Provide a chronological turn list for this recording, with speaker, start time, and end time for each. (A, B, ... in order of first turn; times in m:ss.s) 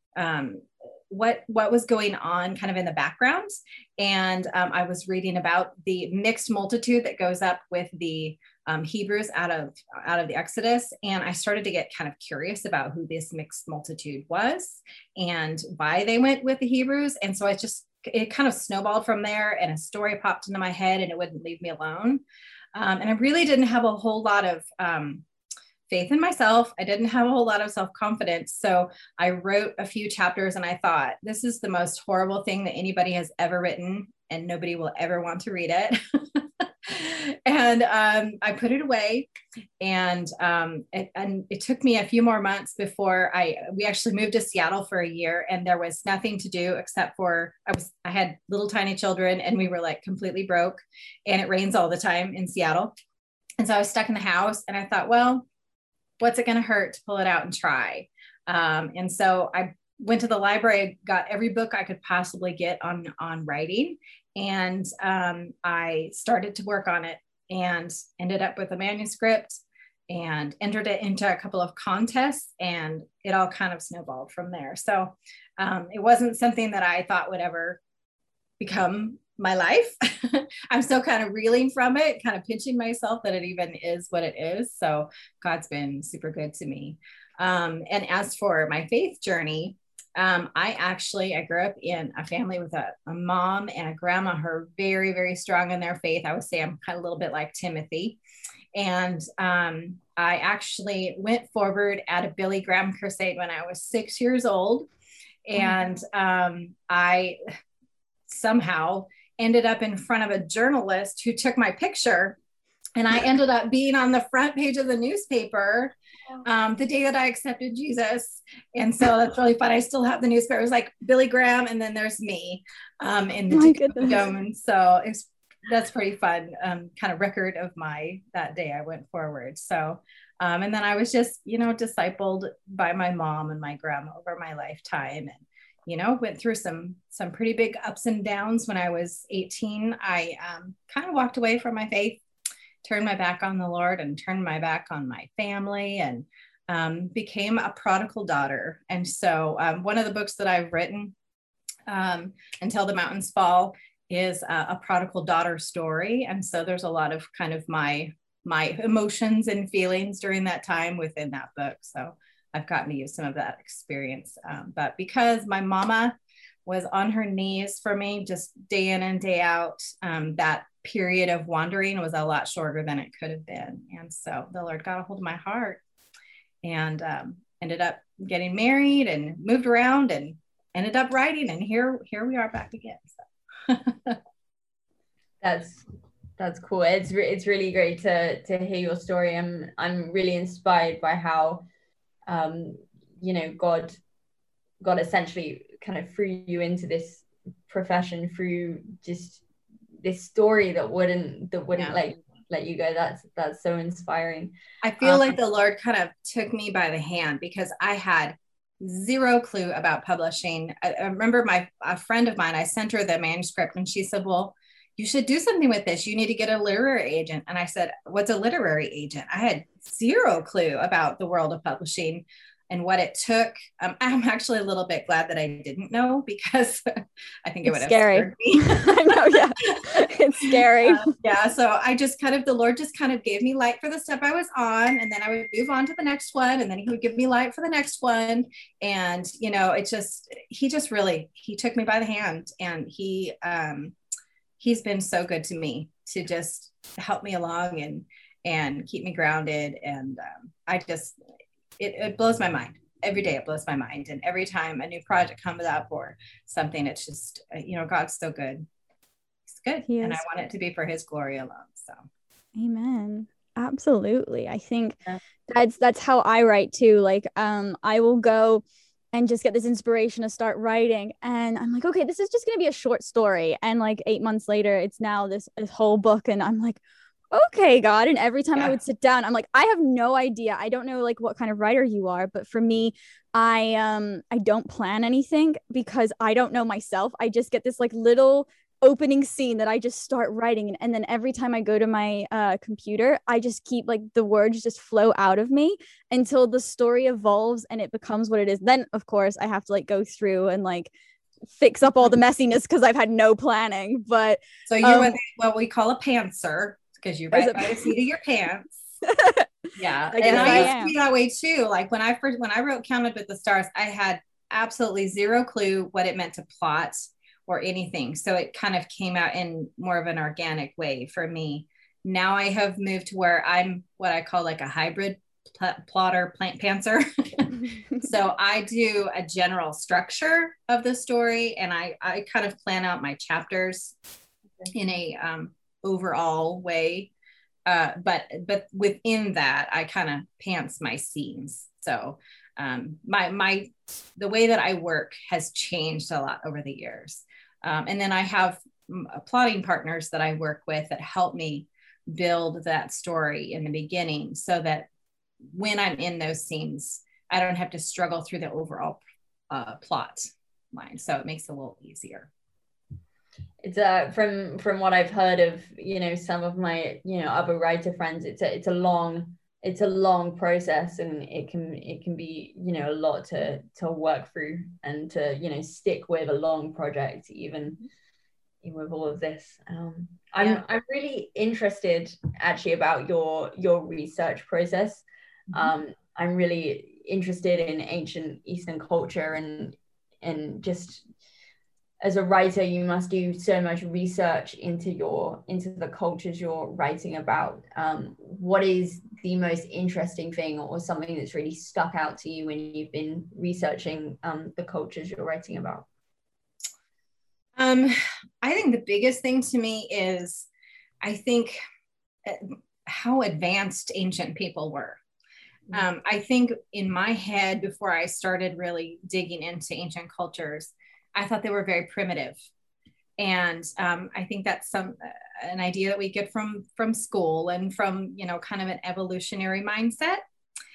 0:00.2-0:22.2 A
0:22.8-0:25.2 A
0:25.9-0:53.0 A
0:53.6-0:55.4 A
0:56.2-1:17.8 A
1:18.6-1:38.2 A
1:38.7-1:44.9 A
1:45.4-1:47.4 A
1:48.3-1:52.4 A
1:53.0-1:55.9 A
1:56.4-2:22.2 A
2:03.5-2:04.2 B
2:22.8-2:31.1 A
2:31.9-2:55.8 A
2:56.6-3:03.2 A
3:03.7-3:04.2 A
3:05.4-3:05.8 C
3:06.4-3:11.7 C
3:12.3-3:14.0 C
3:14.8-3:19.4 C
3:20.0-3:25.4 C
3:24.8-3:49.9 A
3:47.7-3:51.1 B
3:50.4-4:03.9 A
4:04.6-4:11.2 A
4:11.8-4:18.7 A
4:19.5-4:22.0 A
4:19.9-4:20.2 B
4:22.6-4:36.8 B
4:37.3-5:00.9 B
5:01.6-5:05.2 B
5:04.7-5:08.8 A
5:07.3-5:07.9 B
5:09.1-5:09.5 B
5:09.8-5:34.0 A
5:10.1-5:10.9 B
5:10.3-5:10.7 C
5:34.7-5:37.1 A
5:37.7-5:54.9 A
5:55.5-6:02.3 A
6:03.6-6:17.8 C
6:18.6-6:31.0 C
6:20.4-6:20.6 A
6:32.0-6:45.9 C
6:47.6-6:50.5 A
6:51.0-6:51.6 A
6:52.2-6:55.0 A
6:55.7-7:02.4 A
7:03.2-7:10.2 A